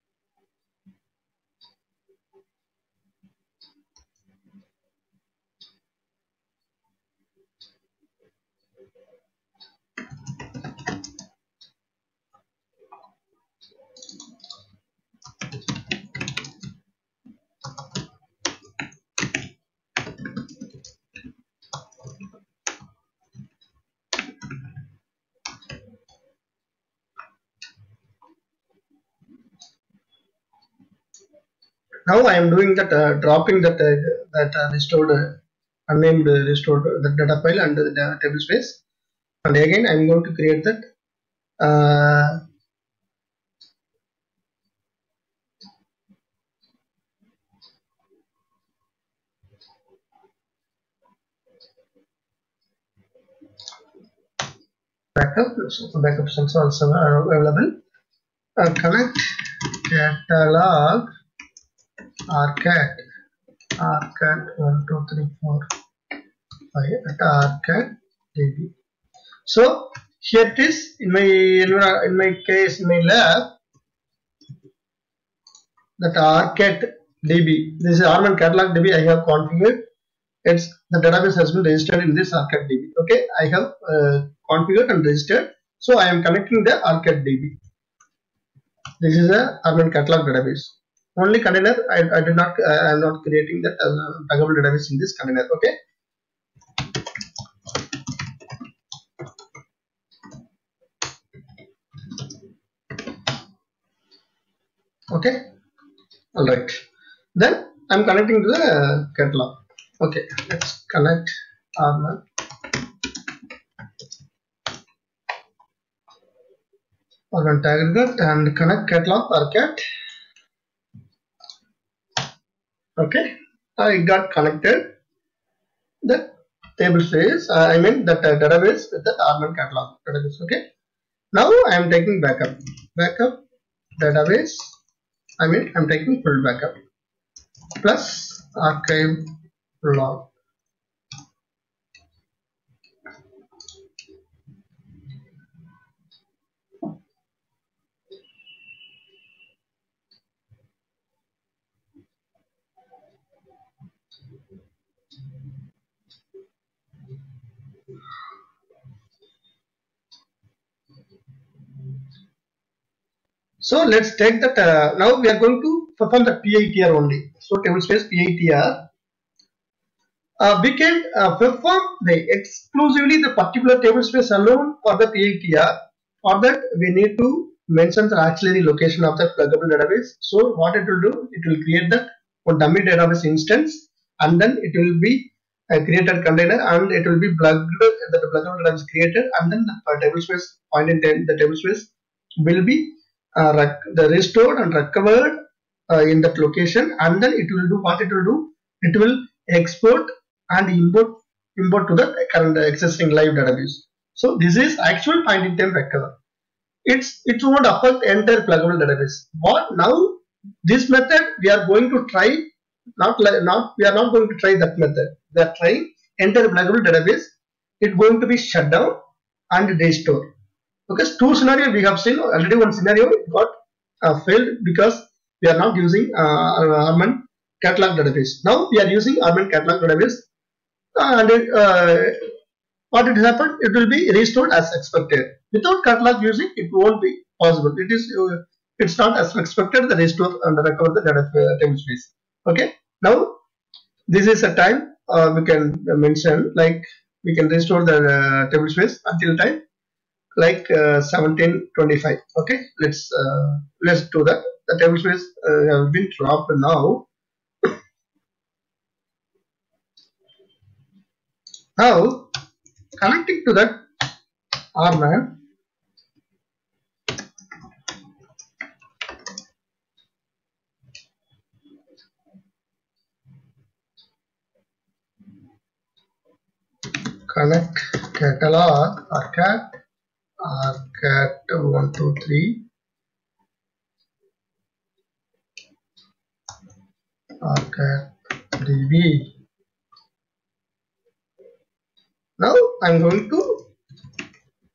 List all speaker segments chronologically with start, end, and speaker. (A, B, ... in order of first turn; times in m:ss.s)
0:32.1-0:35.4 A
0:35.9-0:38.8 A
0:39.4-0:40.9 A
0:41.6-0:42.4 A
0:55.2-0:57.7 A
0:58.6-1:01.1 A
1:02.3-1:03.0 A
1:03.8-1:05.7 A
1:06.7-1:08.7 A
1:09.4-1:13.5 A
1:16.0-1:19.8 A
1:20.4-1:27.6 A
1:29.0-1:35.7 A
1:45.1-1:45.5 A
1:46.3-1:46.8 A
1:47.3-1:52.2 A
1:57.3-1:59.8 A
2:03.0-2:05.0 A
2:06.0-2:10.6 A
2:11.3-2:13.4 A
2:14.0-2:14.8 A
2:15.4-2:16.7 A
2:17.8-2:20.3 A
2:43.6-2:48.8 A
2:50.4-3:11.9 A
3:12.4-3:15.4 A
3:15.9-3:26.2 A
3:26.8-3:32.5 A
3:33.0-3:39.0 A
3:39.5-3:40.3 A
3:40.9-3:50.2 A
3:51.0-3:52.3 A
3:52.9-4:03.4 A
4:04.1-4:09.6 A
4:10.4-4:17.0 A
4:21.8-4:22.3 A
4:23.0-4:23.8 A
4:24.8-4:25.4 A
4:37.3-4:39.8 A
4:40.4-4:42.6 A
4:47.4-4:49.3 A
4:52.4-4:53.7 A